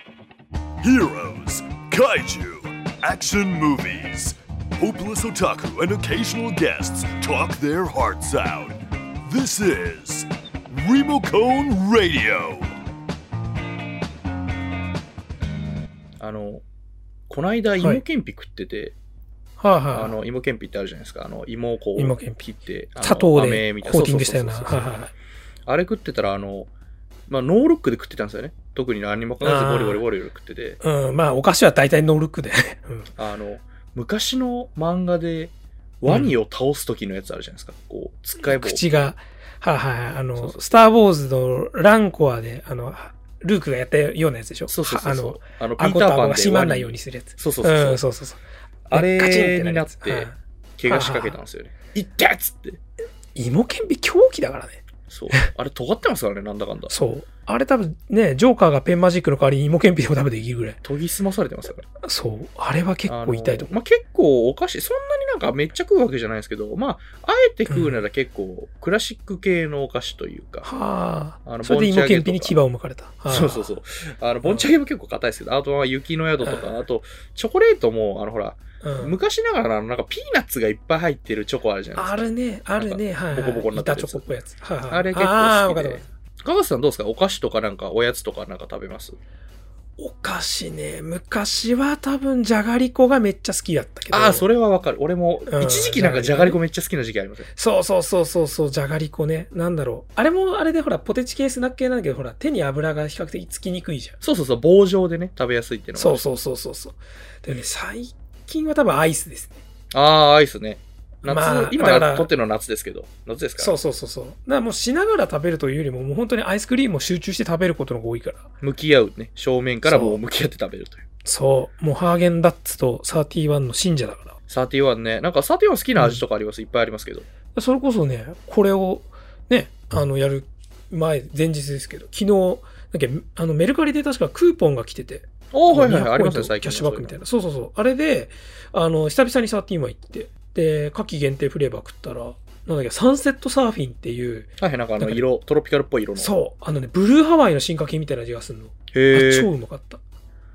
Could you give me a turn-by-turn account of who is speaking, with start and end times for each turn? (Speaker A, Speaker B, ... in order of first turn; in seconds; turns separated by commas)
Speaker A: 0.8-12.7, Speaker B: 16.2-16.6, Speaker B: 17.3-18.9, Speaker C: 19.6-20.1, Speaker B: 19.9-25.0, Speaker C: 22.0-22.4, Speaker C: 23.0-25.1, Speaker B: 25.7-26.7, Speaker B: 27.3-30.8, Speaker C: 29.4-30.0, Speaker C: 30.8-33.1, Speaker B: 33.2-38.8, Speaker C: 36.1-36.4, Speaker C: 38.4-50.4, Speaker B: 40.4-40.8, Speaker B: 44.7-48.0, Speaker B: 48.9-52.8, Speaker C: 50.9-51.4, Speaker C: 53.4-55.5, Speaker B: 55.1-56.9, Speaker C: 56.9-60.8, Speaker B: 60.8-61.9, Speaker C: 62.0-63.7, Speaker B: 63.1-70.7, Speaker C: 67.7-68.0, Speaker C: 70.6-73.7, Speaker B: 71.5-72.5, Speaker B: 73.3-82.3, Speaker C: 76.4-76.7, Speaker C: 78.8-79.2, Speaker C: 82.0-86.0, Speaker B: 82.8-84.3, Speaker B: 84.9-89.2, Speaker C: 90.0-94.5, Speaker B: 94.1-97.5, Speaker C: 95.5-96.6, Speaker C: 97.6-104.2, Speaker B: 104.2-106.2, Speaker C: 106.0-109.6, Speaker B: 109.9-113.8, Speaker C: 111.2-112.3, Speaker C: 113.6-118.5, Speaker B: 118.6-121.0, Speaker C: 119.8-120.2, Speaker C: 121.2-124.4, Speaker B: 124.5-127.3, Speaker C: 126.0-126.2, Speaker C: 127.5-145.2, Speaker B: 135.5-137.2, Speaker B: 144.6-146.3, Speaker C: 146.2-150.0, Speaker B: 148.9-149.5